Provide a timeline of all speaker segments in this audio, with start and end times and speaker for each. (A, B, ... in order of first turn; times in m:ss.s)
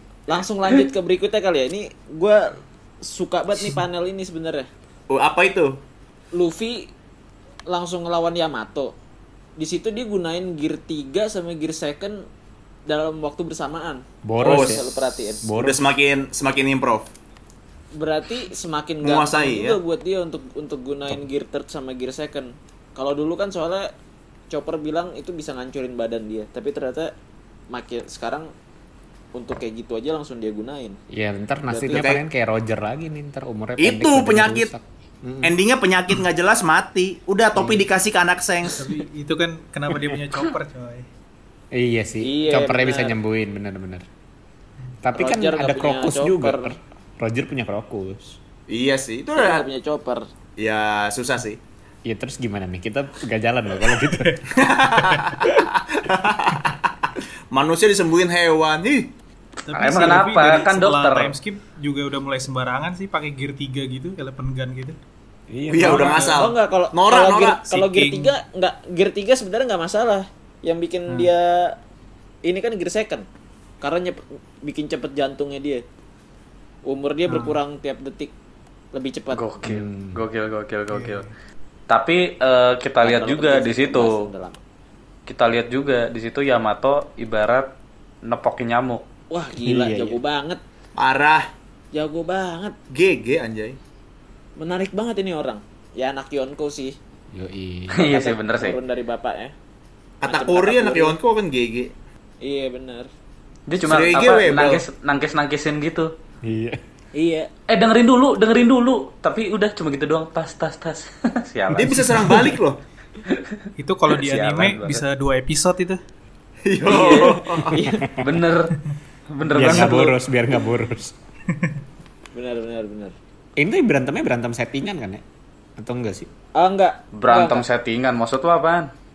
0:00.3-0:04.7 A
0:05.1-0:05.8 B
0:06.3-0:06.9 A
0:07.7-0:08.9 A
0:09.6-0:12.2 A
0:12.9-0:15.5 A
0:14.2-0:15.9 C
0:14.4-0:14.9 B
0:15.6-0:17.1 B
0:17.9-0:23.9 A
0:19.0-0:19.8 B
0:24.5-0:27.1 A
0:27.7-0:28.5 A
0:29.4-0:31.0 A
0:31.1-0:35.6 C
0:31.7-0:32.1 A
0:31.9-0:32.2 B
0:33.8-0:34.7 B
0:35.4-0:38.8 B
0:37.6-0:37.9 C
0:38.7-0:41.1 D
0:41.7-0:44.0 C
0:42.2-0:43.2 A
0:45.0-0:48.4 C
0:45.2-0:46.7 A
0:48.7-0:49.7 B
0:49.4-0:50.3 A
0:50.6-0:51.6 B
0:52.0-0:54.4 C
0:54.5-0:59.1 B
0:59.6-1:05.0 D
0:59.7-1:01.4 E
1:05.5-1:06.3 C
1:05.7-1:07.6 B
1:05.8-1:06.4 D
1:06.3-1:11.8 A
1:07.7-1:08.3 D
1:12.4-1:13.3 A
1:13.8-1:15.8 A
1:16.9-1:18.3 A
1:17.3-1:17.6 D
1:18.9-1:19.4 A
1:19.3-1:21.3 E
1:19.6-1:20.2 C
1:20.9-1:21.3 D
1:21.9-1:24.2 E
1:23.0-1:24.6 A
1:25.3-1:27.7 E
1:28.2-1:29.0 E
1:29.3-1:30.6 A
1:29.6-1:30.2 C
1:31.0-1:31.5 B
1:31.9-1:32.8 A
1:32.9-1:33.8 B
1:34.6-1:37.0 A
1:37.3-1:38.1 C
1:37.9-1:38.8 E
1:38.0-1:39.5 A
1:40.2-1:41.9 B
1:40.3-1:41.2 A
1:42.4-1:43.1 A
1:43.7-1:46.1 E
1:43.8-1:44.8 B
1:46.4-1:46.8 C
1:47.2-1:47.5 A
1:47.7-1:52.5 E
1:51.7-1:52.8 B
1:53.3-1:55.0 E
1:53.8-1:56.0 D
1:56.7-1:57.8 B
1:56.8-1:58.1 A
1:56.9-1:57.3 E
1:58.2-1:58.8 E
1:59.3-2:00.2 E
1:59.5-2:01.2 C
2:02.3-2:03.2 A
2:03.6-2:05.2 C
2:05.8-2:06.3 C
2:06.6-2:07.6 A
2:07.2-2:08.9 E